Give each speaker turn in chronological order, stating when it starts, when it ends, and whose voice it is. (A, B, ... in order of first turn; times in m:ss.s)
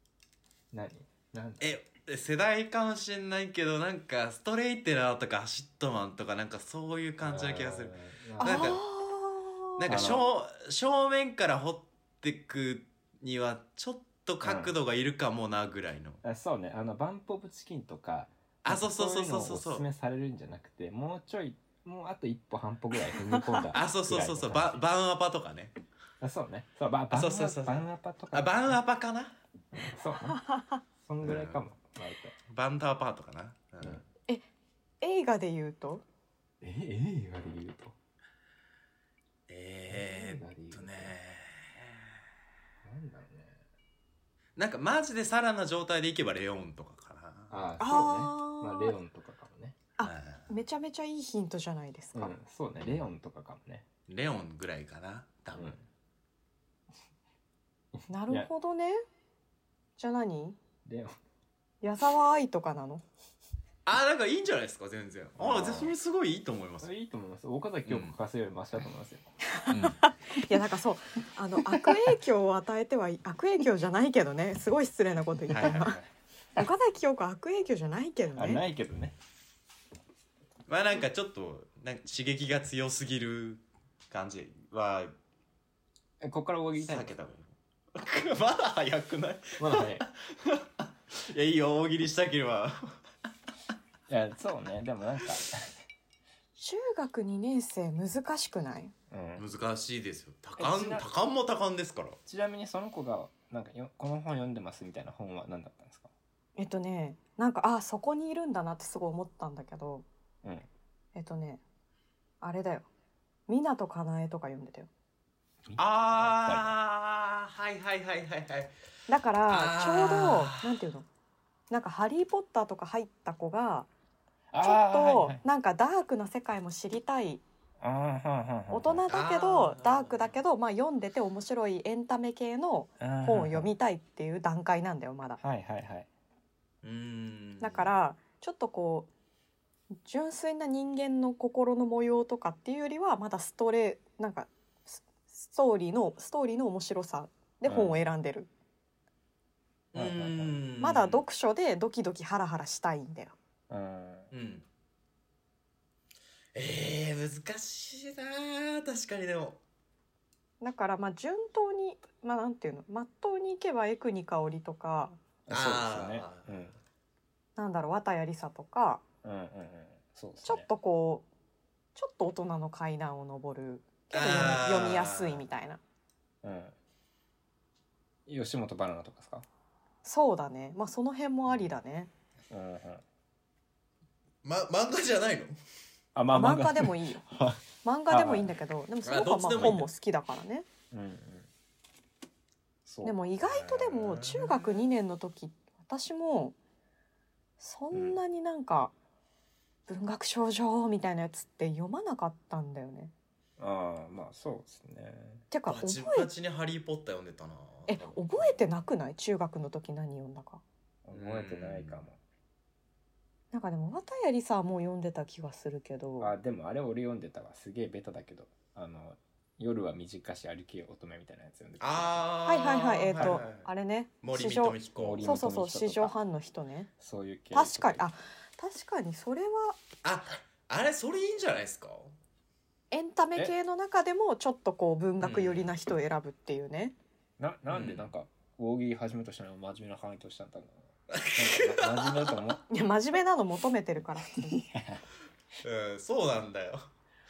0:00.7-0:01.8 A
0:01.6-0:08.8 B
0:07.2-0:08.8 A
0:08.4-0:09.8 C
0:09.8-0:16.2 B
0:09.9-0:10.2 A
0:14.4-0:14.7 A
0:16.2-0:24.8 A
0:18.6-0:19.8 B
0:23.7-0:25.7 B
0:26.2-0:28.8 A
0:27.1-0:29.4 B
0:29.9-0:30.4 A
0:30.3-0:30.8 C
0:31.0-0:32.3 A
0:31.2-0:31.6 B
0:32.5-0:34.0 B
0:35.0-0:36.0 C
0:36.6-0:38.0 A
0:39.5-0:42.0 B
0:39.9-0:41.1 A
0:42.8-0:43.6 A
0:44.6-0:47.6 B
0:47.5-0:49.8 A
0:47.8-0:49.0 C
0:50.0-0:52.3 C
0:50.0-0:50.5 B
0:52.1-0:53.8 A
0:54.1-0:55.7 B
0:55.5-0:55.8 A
0:58.0-0:58.5 A
0:58.1-0:59.0 C
1:00.0-1:00.6 C
1:00.8-1:01.2 A
1:01.8-1:03.0 C
1:03.8-1:06.9 B
1:05.4-1:05.9 A
1:06.8-1:09.3 A
1:07.8-1:08.1 B
1:09.6-1:16.0 C
1:09.7-1:10.0 B
1:15.5-1:16.0 B
1:15.5-1:16.1 A
1:16.6-1:18.6 C
1:18.3-1:19.2 A
1:20.7-1:25.1 B
1:26.2-1:27.1 A
1:26.8-1:33.0 B
1:29.6-1:30.0 A
1:34.1-1:35.8 A
1:36.6-1:38.9 C
1:39.1-1:39.4 A
1:39.4-1:42.2 B
1:40.6-1:41.0 A
1:42.2-1:46.1 A
1:46.6-1:50.0 C
1:51.1-1:51.6 C
1:52.4-1:52.9 C
1:53.5-1:54.9 C
1:55.6-1:56.8 A
1:55.8-1:58.7 B
1:59.1-2:01.1 C
1:59.5-2:00.8 B
2:01.7-2:03.9 C
2:04.5-2:05.4 A
2:04.6-2:07.4 C
2:07.8-2:09.0 A
2:08.7-2:15.4 C
2:09.1-2:10.3 B
2:13.0-2:13.7 A
2:15.4-2:16.1 A
2:16.8-2:17.9 B
2:17.6-2:19.1 C
2:20.0-2:28.5 C
2:27.6-2:28.0 A
2:29.9-2:31.2 B
2:29.9-2:30.6 A
2:30.8-2:33.3 C
2:33.7-2:34.3 A
2:34.3-2:34.6 B
2:36.5-2:39.6 B
2:40.6-2:45.2 C
2:45.5-2:46.8 A
2:45.5-2:46.6 B
2:47.6-2:49.0 C
2:49.2-2:50.7 A
2:50.4-2:51.3 C
2:51.9-2:55.8 C
2:54.1-2:55.4 B
2:56.4-2:56.7 A
2:58.2-2:59.4 A
3:00.0-3:02.1 C
3:02.5-3:03.0 A
3:04.4-3:05.6 B
3:06.1-3:08.5 A
3:06.3-3:07.2 C
3:07.8-3:10.6 C
3:09.0-3:09.9 B
3:09.6-3:09.8 A
3:10.9-3:11.5 A
3:12.8-3:13.2 A
3:13.0-3:16.6 C
3:13.4-3:14.8 B
3:17.6-3:18.9 C
3:17.9-3:18.2 A
3:19.9-3:23.1 C
3:23.6-3:25.4 A
3:25.5-3:26.3 C
3:25.7-3:28.6 B
3:27.9-3:30.6 C
3:31.0-3:32.2 A
3:31.1-3:32.0 B
3:33.5-3:36.3 C
3:36.2-3:42.3 A
3:41.8-3:43.7 B
3:42.4-3:46.9 C
3:44.2-3:45.3 B
3:45.0-3:46.1 A
3:47.0-3:48.0 A
3:47.5-3:49.8 C
3:50.0-3:52.1 B
3:52.9-3:57.0 C
3:55.2-3:55.7 B
3:57.4-4:02.6 A
3:57.7-3:58.1 B
4:01.1-4:02.4 B
4:02.7-4:04.6 C
4:04.4-4:05.0 A
4:05.6-4:06.8 B